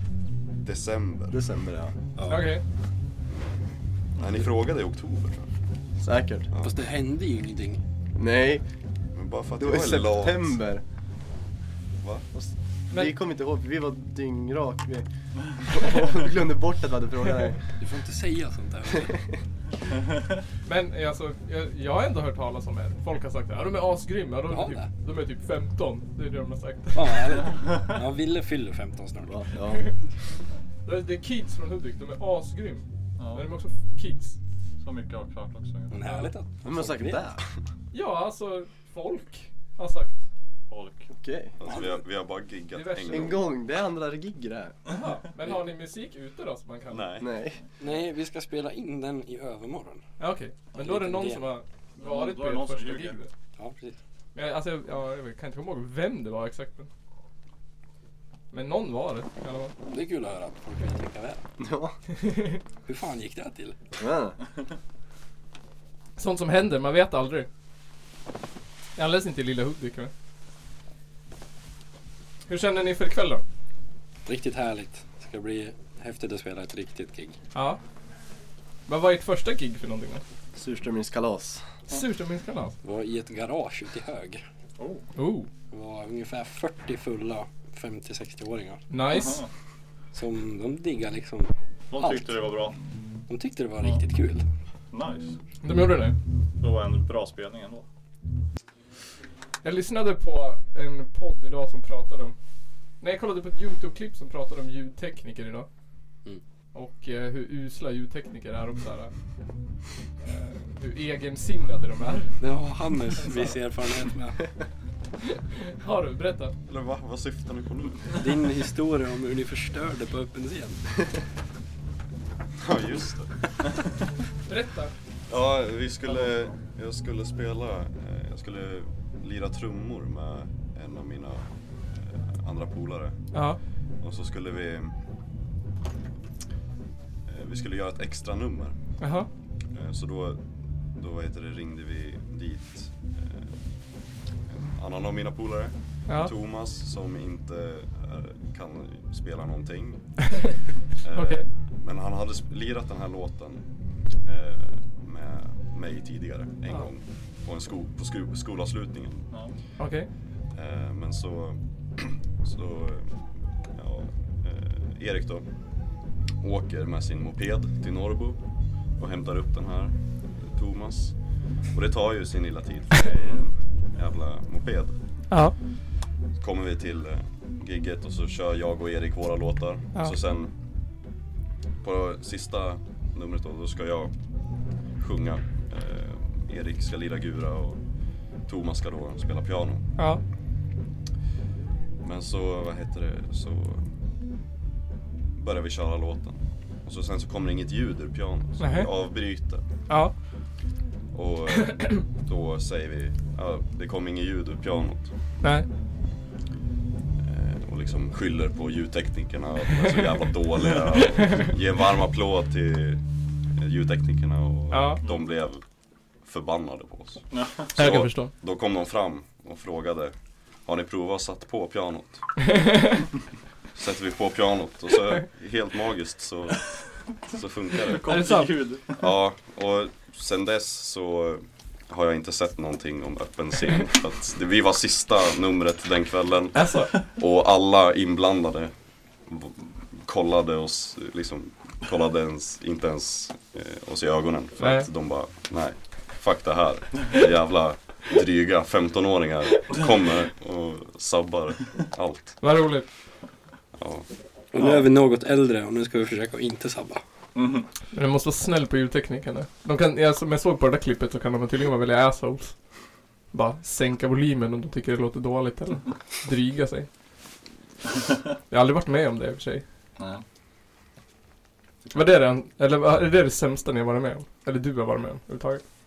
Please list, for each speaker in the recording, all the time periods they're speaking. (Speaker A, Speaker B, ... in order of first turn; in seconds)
Speaker A: 0.6-1.4, 4.2-5.5, 9.1-10.6, 12.0-12.2, 41.6-43.4, 46.9-47.3, 116.7-118.2, 122.6-123.3, 125.3-131.4, 132.0-133.2, 134.0-134.9, 137.3-138.8, 139.7-140.4, 140.9-143.5, 144.5-150.1, 151.0-153.6, 154.2-159.2, 160.5-163.2, 163.7-165.4, 166.4-168.4, 169.0-171.1, 171.7-174.9, 176.4-180.5, 181.8-184.1, 185.0-187.8, 188.5-189.8, 192.0-193.8, 195.3-199.6, 201.1-205.1, 207.2-213.0, 213.6-215.6, 216.2-220.1, 220.7-222.2, 223.7-228.2, 229.0-238.7, 239.3-252.4, 253.8-254.0
Speaker B: 1.3-1.9, 6.0-6.5, 8.2-8.6, 9.6-10.8, 12.3-17.6, 29.2-29.9, 36.6-37.4, 41.1-41.6, 43.1-44.7, 47.2-47.6, 61.6-61.9, 64.0-64.4, 80.5-81.6
Speaker C: 2.3-2.6, 20.6-27.5, 30.8-34.4, 37.9-40.2, 42.7-43.4, 44.9-47.2, 50.2-53.3, 54.3-56.9, 58.5-59.7, 62.2-62.6, 66.2-67.5, 69.0-70.1, 72.5-73.4, 77.5-77.8, 78.9-80.2, 81.9-82.7, 85.2-85.5, 88.9-89.4, 95.6-96.2, 99.6-102.3, 103.0-105.7, 106.7-109.1, 110.2-112.3, 113.2-113.5, 115.6-116.5, 124.5-124.9, 133.3-133.6, 139.0-139.3, 151.1-151.4, 159.8-160.1, 198.6-198.9, 211.0-211.5, 214.7-215.0, 217.8-218.3, 222.5-223.0, 228.1-228.5, 236.5-236.9, 244.6-244.9, 252.4-252.8, 257.9-262.5, 263.3-266.9, 268.5-269.6, 271.9-275.6
Speaker D: 6.6-7.8, 17.8-19.1, 24.5-24.9, 26.9-29.4, 35.9-37.3, 47.8-50.0, 50.8-51.4, 53.6-54.0, 59.9-61.4, 62.8-63.8, 74.2-77.4, 82.8-84.4, 85.7-88.8, 90.1-92.3, 93.3-94.4, 112.4-114.5, 118.1-120.8, 254.5-257.0
Speaker E: 33.2-33.4, 34.8-36.0, 40.7-41.1, 52.0-53.2, 84.8-85.0, 89.1-89.5, 91.9-92.8, 94.9-95.3, 96.6-97.8, 217.3-217.7, 227.9-229.0, 257.3-257.6